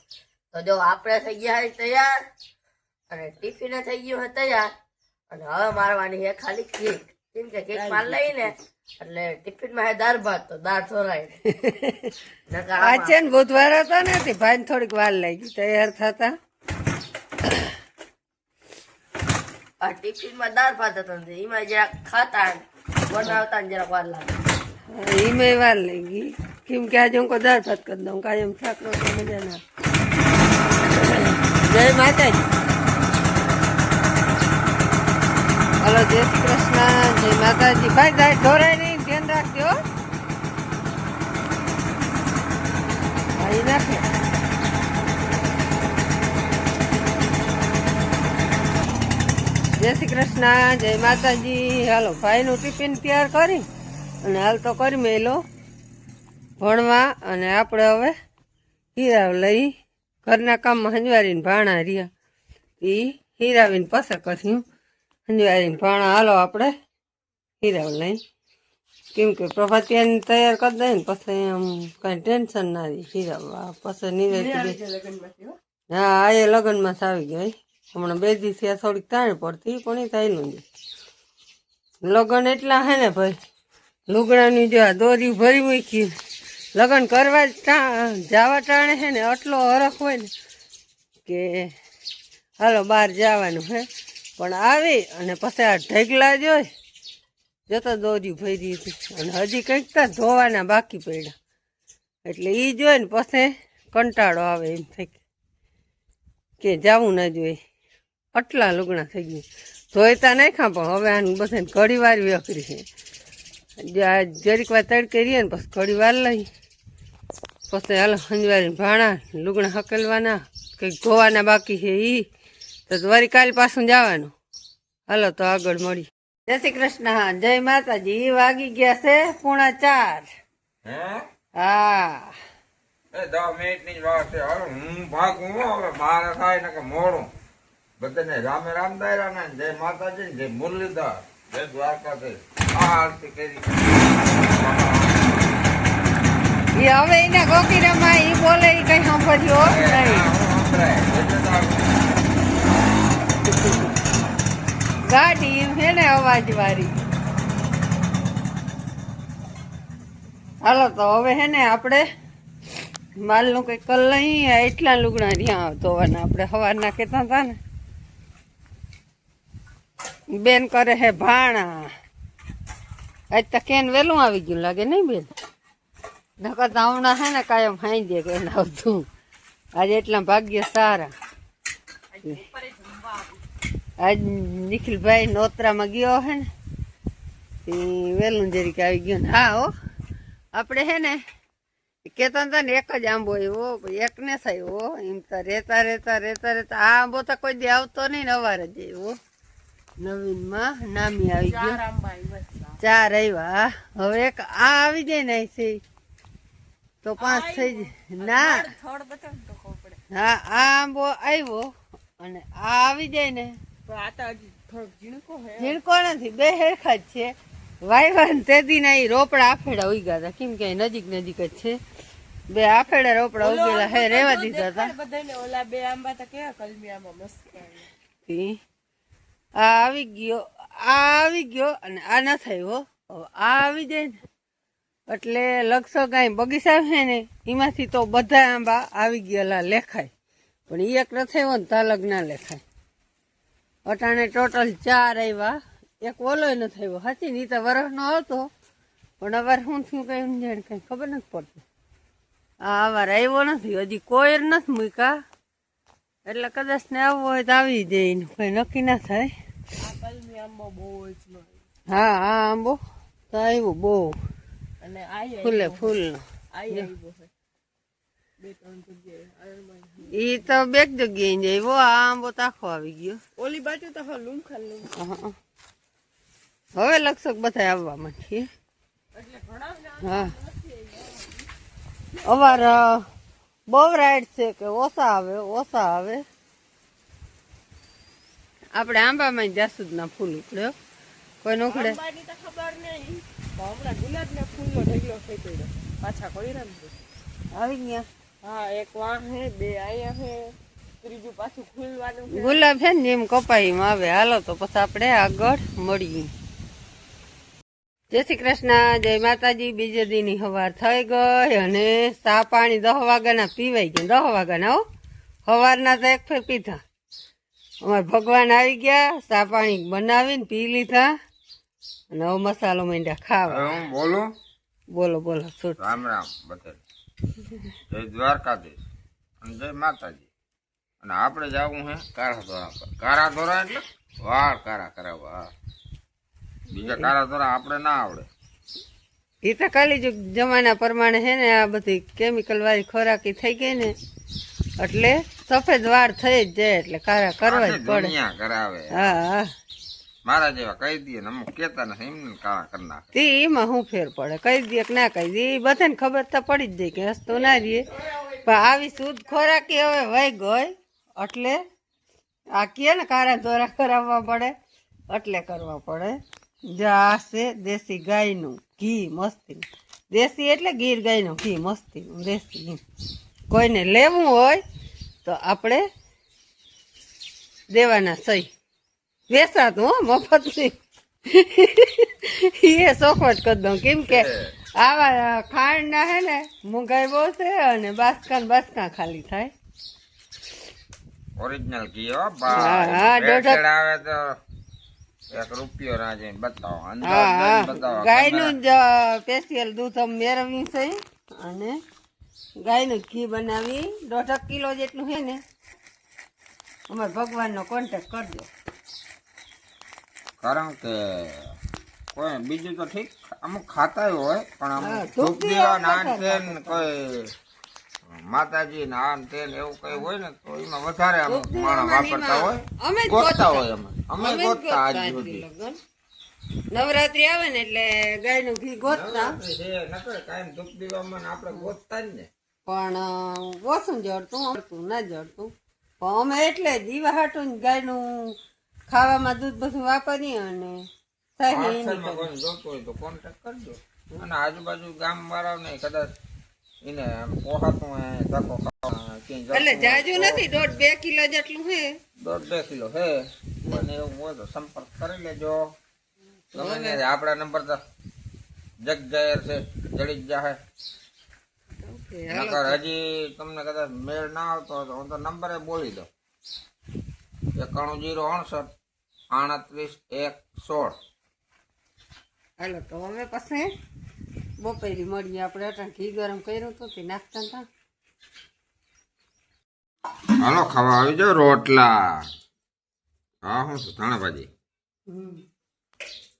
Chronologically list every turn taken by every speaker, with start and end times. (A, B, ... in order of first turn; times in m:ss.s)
0:00.5-0:02.2 A
0:03.1-0:04.7 A
0:05.3-0:11.4 A
0:07.7-0:08.3 B
0:11.5-0:12.1 B
0:12.5-0:13.2 A
0:12.8-0:16.3 B
0:19.8-0:24.3 A
0:24.9-0:29.6 B
0:30.9-0:32.5 B
0:35.8-0:39.7 B
0:43.4-0:44.0 B
0:49.8-0:53.6 B
0:54.2-0:55.4 B
0:56.6-0:58.1 B
0:58.9-0:59.7 B
1:00.2-1:02.1 B
1:02.8-1:04.6 B
1:05.3-1:06.7 B
1:07.6-1:08.2 B
1:09.1-1:14.8 B
1:14.3-1:15.6 C
1:15.9-1:20.6 B
1:22.0-1:23.4 B
1:24.1-1:26.1 B
1:26.8-1:30.3 B
1:31.2-1:31.7 B
1:32.6-1:33.8 B
1:34.4-1:36.7 B
1:37.7-1:41.3 B
1:42.3-1:45.2 B
1:46.6-1:47.6 B
1:48.3-1:52.8 B
1:53.8-1:56.4 B
1:57.7-2:02.2 B
2:02.9-2:04.3 B
2:05.1-2:10.3 B
2:10.8-2:11.2 D
2:11.6-2:12.3 B
2:13.1-2:17.3 D
2:18.0-2:25.4 D
2:26.8-2:30.3 B
2:29.6-2:32.0 D
2:35.1-2:36.9 B
2:40.6-2:42.0 B
2:43.2-2:47.5 B
2:50.4-2:51.9 B
2:53.3-2:55.3 B
2:56.4-2:59.0 B
2:59.8-3:01.1 B
3:02.1-3:03.3 C
3:04.0-3:06.4 B
3:07.6-3:09.7 B
3:10.6-3:11.2 B
3:12.0-3:19.1 B
3:20.0-3:21.8 B
3:21.4-3:22.8 C
3:22.8-3:25.8 B
3:27.0-3:28.7 B
3:27.2-3:30.0 C
3:30.1-3:31.6 B
3:32.2-3:33.5 B
3:33.8-3:35.8 C
3:35.6-3:37.3 B
3:37.8-3:41.8 B
3:42.5-3:44.9 B
3:43.4-3:47.9 C
3:48.3-3:48.6 B
3:49.6-3:54.2 B
3:55.1-4:00.1 B
4:00.7-4:02.6 B
4:03.9-4:08.5 B
4:09.2-4:11.6 B
4:12.6-4:15.2 B
4:16.2-4:19.3 B
4:19.8-4:21.6 C
4:21.9-4:22.8 B
4:23.3-4:24.1 B
4:24.8-4:26.0 C
4:25.4-4:26.9 B
4:26.5-4:27.3 C
4:28.4-4:30.1 C
4:30.1-4:33.2 B
4:33.4-4:34.9 C
4:35.0-4:35.3 B
4:36.8-4:38.4 B
4:39.2-4:41.5 C
4:40.0-4:40.3 B
4:42.2-4:43.0 B
4:43.7-4:46.2 B
4:48.8-4:50.7 B
4:51.4-4:52.0 B
4:51.7-4:56.9 C
4:57.5-4:58.0 B
4:58.4-5:02.6 C
5:02.3-5:06.3 B
5:08.1-5:14.8 B
5:15.4-5:16.8 B
5:17.8-5:21.1 B
5:22.1-5:23.8 B
5:23.5-5:24.3 D
5:24.9-5:25.8 B
5:25.8-5:26.8 D
5:27.9-5:28.8 D
5:29.4-5:30.3 D
5:31.0-5:35.5 D
5:36.7-5:38.3 D
5:39.4-5:43.9 B
5:44.8-5:48.1 B
5:47.4-5:49.2 D
5:48.9-5:49.5 B
5:50.2-5:53.0 D
5:53.1-6:01.6 B
6:02.5-6:04.5 B
6:05.1-6:06.2 B
6:06.7-6:12.8 B
6:13.5-6:14.6 B
6:15.2-6:15.8 B
6:17.7-6:18.5 B
6:19.3-6:20.7 B
6:21.3-6:24.3 B
6:24.1-6:24.5 D
6:24.8-6:29.5 B
6:31.4-6:34.3 D
6:32.5-6:33.6 B
6:35.3-6:38.6 D
6:37.0-6:41.7 B
6:42.6-6:45.4 B
6:46.9-6:48.5 B
6:50.4-6:51.5 D
6:52.1-6:57.3 D
6:54.8-6:56.8 B
6:58.1-7:05.4 D
7:01.3-7:03.6 B
7:04.2-7:05.8 B
7:06.7-7:09.4 B
7:08.8-7:12.3 D
7:12.7-7:15.5 B
7:16.0-7:18.3 B
7:18.9-7:20.8 B
7:21.4-7:22.3 B
7:21.5-7:26.1 D
7:26.8-7:30.6 D
7:29.5-7:31.9 B
7:32.2-7:35.6 D
7:36.5-7:37.0 B
7:36.5-7:37.8 D
7:38.8-7:40.6 D
7:41.8-7:42.8 B
7:42.3-7:46.1 D
7:47.6-7:48.7 D
7:49.3-7:51.0 D
7:52.6-7:53.7 B
7:54.6-7:57.6 B
8:00.4-8:02.2 D
8:03.4-8:04.5 D
8:05.1-8:05.4 B